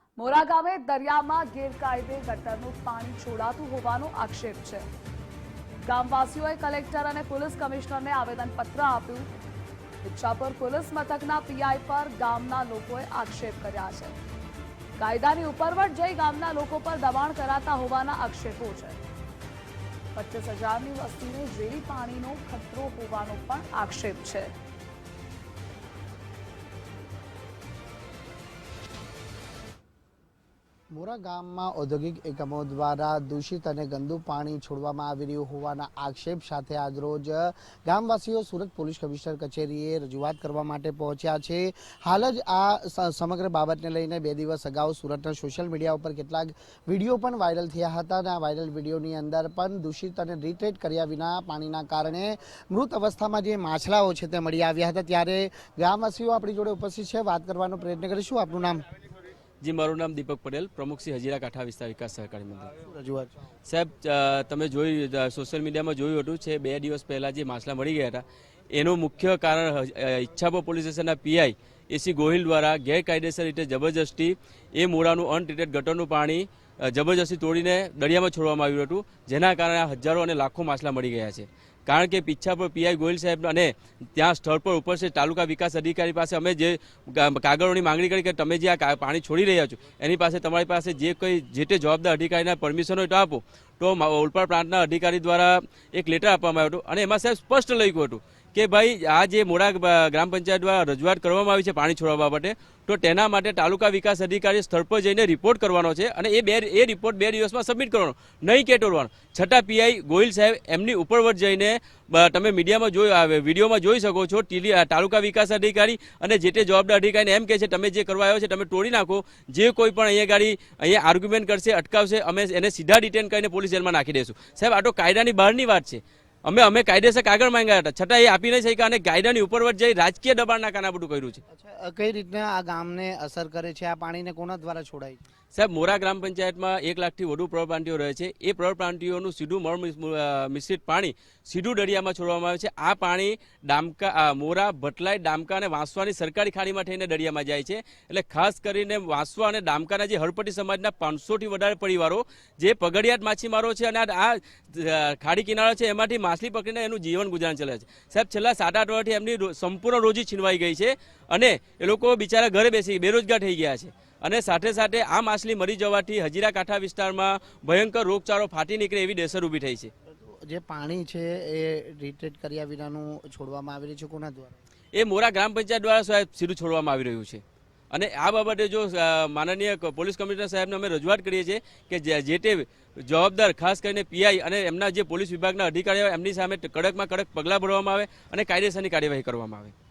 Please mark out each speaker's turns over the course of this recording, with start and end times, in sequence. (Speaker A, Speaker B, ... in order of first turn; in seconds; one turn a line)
Speaker A: 0.2-4.8
Speaker A: 5.9-9.3
Speaker A: 10.0-14.1
Speaker A: 15.0-19.0
Speaker A: 20.1-24.5
Speaker B: 30.9-58.8
Speaker C: 59.6-62.7
Speaker B: 62.8-63.4
Speaker C: 63.7-68.2
Speaker C: 68.7-131.4
Speaker B: 131.5-135.2
Speaker C: 135.5-169.9
Speaker B: 170.1-174.6
Speaker C: 174.9-189.7